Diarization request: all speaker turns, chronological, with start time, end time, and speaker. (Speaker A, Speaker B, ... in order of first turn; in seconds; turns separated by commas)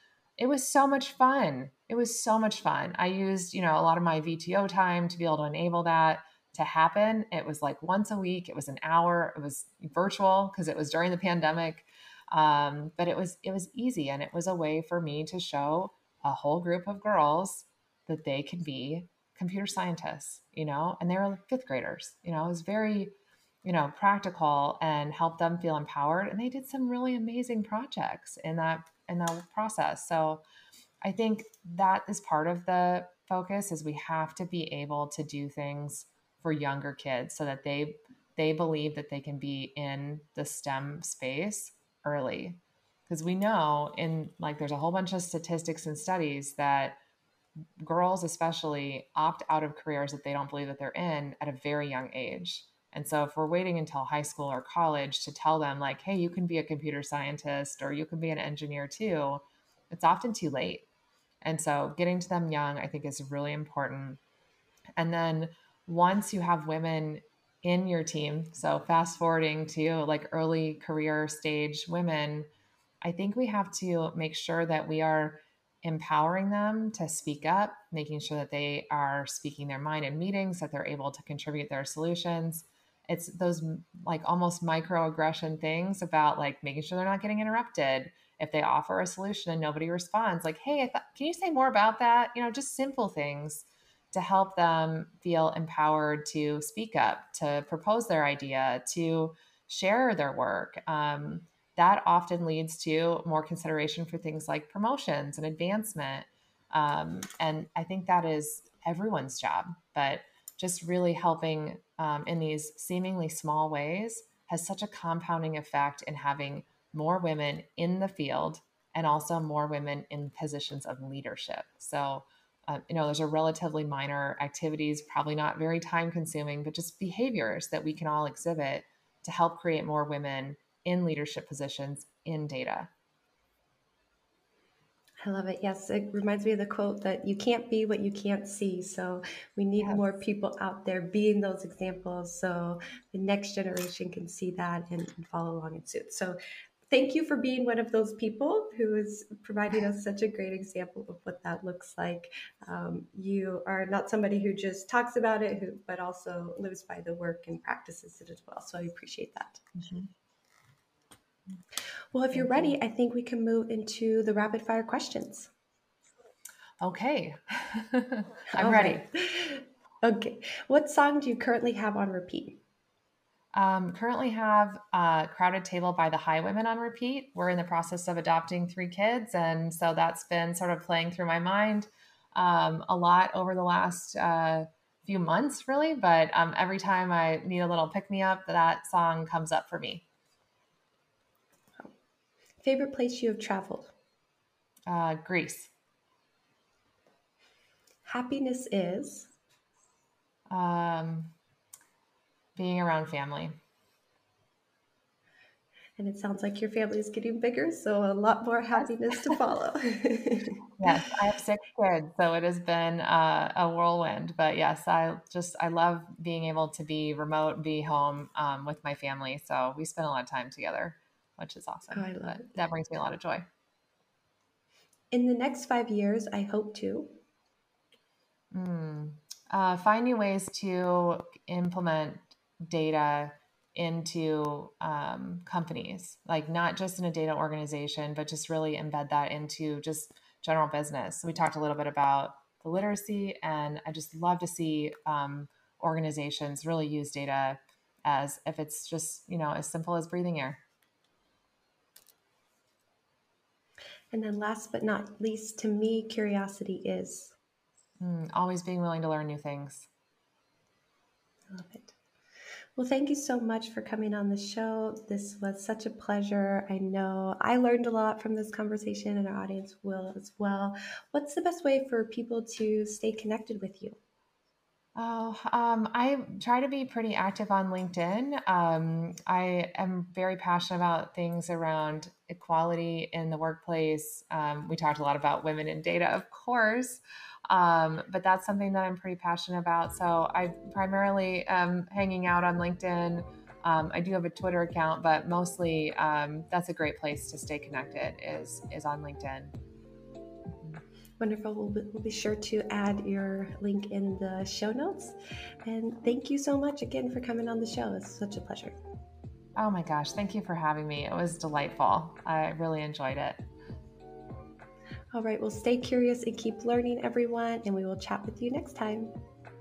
Speaker A: 0.4-30.4, Speaker A: 31.0-47.0, Speaker A: 47.8-60.9, Speaker A: 61.4-64.2, Speaker A: 65.0-72.5, Speaker A: 73.0-132.9, Speaker B: 135.2-146.4, Speaker B: 146.9-159.6, Speaker A: 159.8-160.1, Speaker B: 162.1-165.5, Speaker A: 162.3-162.8, Speaker A: 166.8-169.0, Speaker B: 168.5-172.6, Speaker A: 173.5-190.1, Speaker B: 192.6-193.9, Speaker A: 194.9-195.7, Speaker B: 198.1-199.3, Speaker A: 200.5-201.3, Speaker A: 202.6-203.5, Speaker B: 206.0-210.6, Speaker A: 210.8-223.5, Speaker B: 221.9-222.6, Speaker B: 225.1-227.2, Speaker A: 228.5-250.6, Speaker B: 254.1-257.4, Speaker A: 258.0-259.9, Speaker B: 261.5-261.9, Speaker B: 262.8-274.0, Speaker A: 275.0-299.5, Speaker B: 301.2-308.8, Speaker A: 309.6-313.4, Speaker B: 315.1-319.1